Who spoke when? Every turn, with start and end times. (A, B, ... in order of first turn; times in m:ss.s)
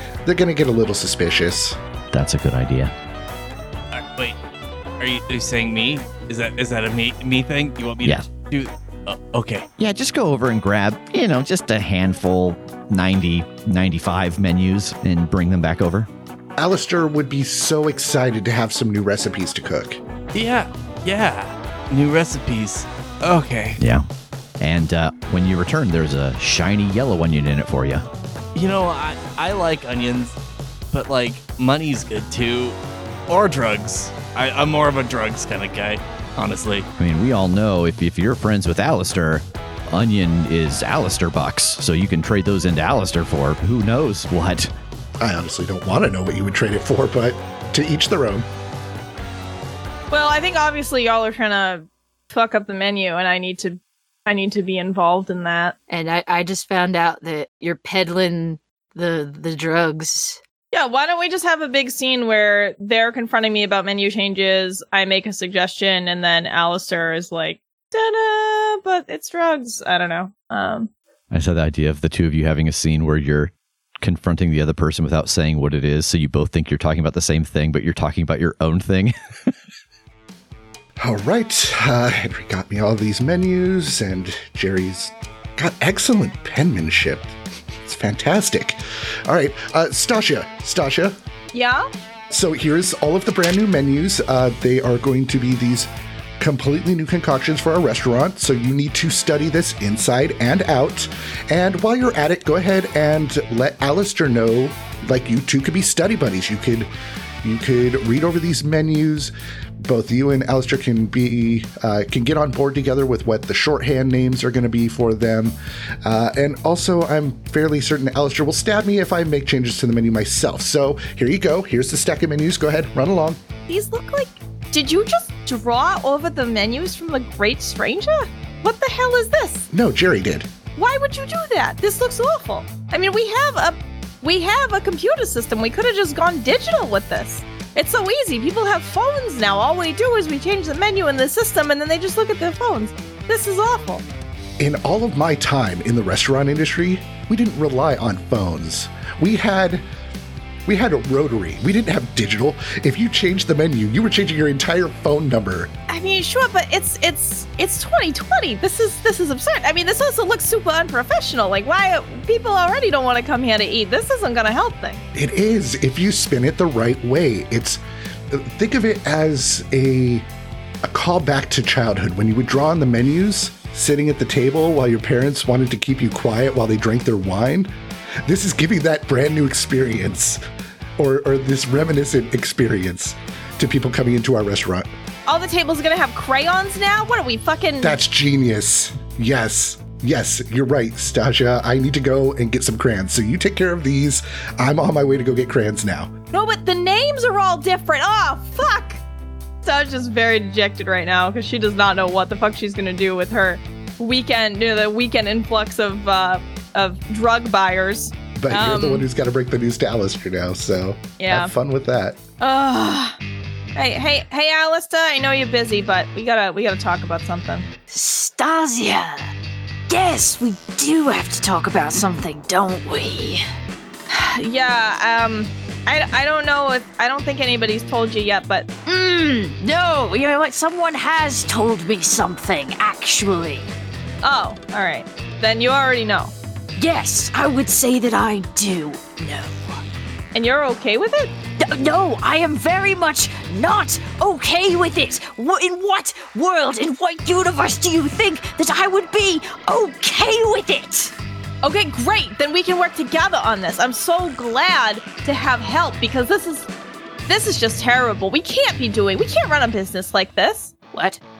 0:00.2-0:01.8 A
0:02.1-0:02.9 B
0:03.9-0:04.4 C
0:05.0-0:09.6 C
0:09.8-0:16.1 B
0:16.6-0:20.0 A
0:20.3-0:23.8 C
0:23.8-0:24.1 B
0:24.6-0:28.1 B
0:28.5-0:30.3 C
0:30.9-0:32.8 C
0:33.3-0:36.9 C
0:37.0-0:44.7 B
0:45.2-0:48.5 A
0:50.1-0:55.7 D
0:55.9-1:00.4 E
1:00.7-1:10.9 D
1:11.3-1:19.5 B
1:21.0-1:31.2 A
1:31.5-1:31.8 D
1:32.3-1:46.9 A
1:47.4-1:49.3 A
1:49.8-2:03.4 A
2:03.7-2:09.7 D
2:09.7-2:10.5 A
2:10.8-2:24.0 D
2:24.6-2:29.8 A
2:30.6-2:35.7 A
2:35.9-2:45.0 D
2:45.1-2:50.3 A
2:50.8-2:57.7 A
2:58.2-3:00.4 A
3:01.0-3:04.9 A
3:05.2-3:08.0 D
3:07.8-3:16.1 A
3:16.3-3:19.0 D
3:19.6-3:29.1 D
3:28.4-3:32.2 A
3:31.2-3:31.5 D
3:32.4-3:33.2 D
3:33.8-3:37.7 D
3:37.9-3:39.3 E
3:39.9-3:43.4 E
3:44.1-3:48.7 D
3:48.8-3:53.7 E
3:54.2-3:56.3 D
3:56.8-3:59.8 E
4:00.3-4:01.3 D
4:01.6-4:11.1 E
4:11.6-4:16.7 D
4:17.2-4:20.7 D
4:20.9-4:21.2 E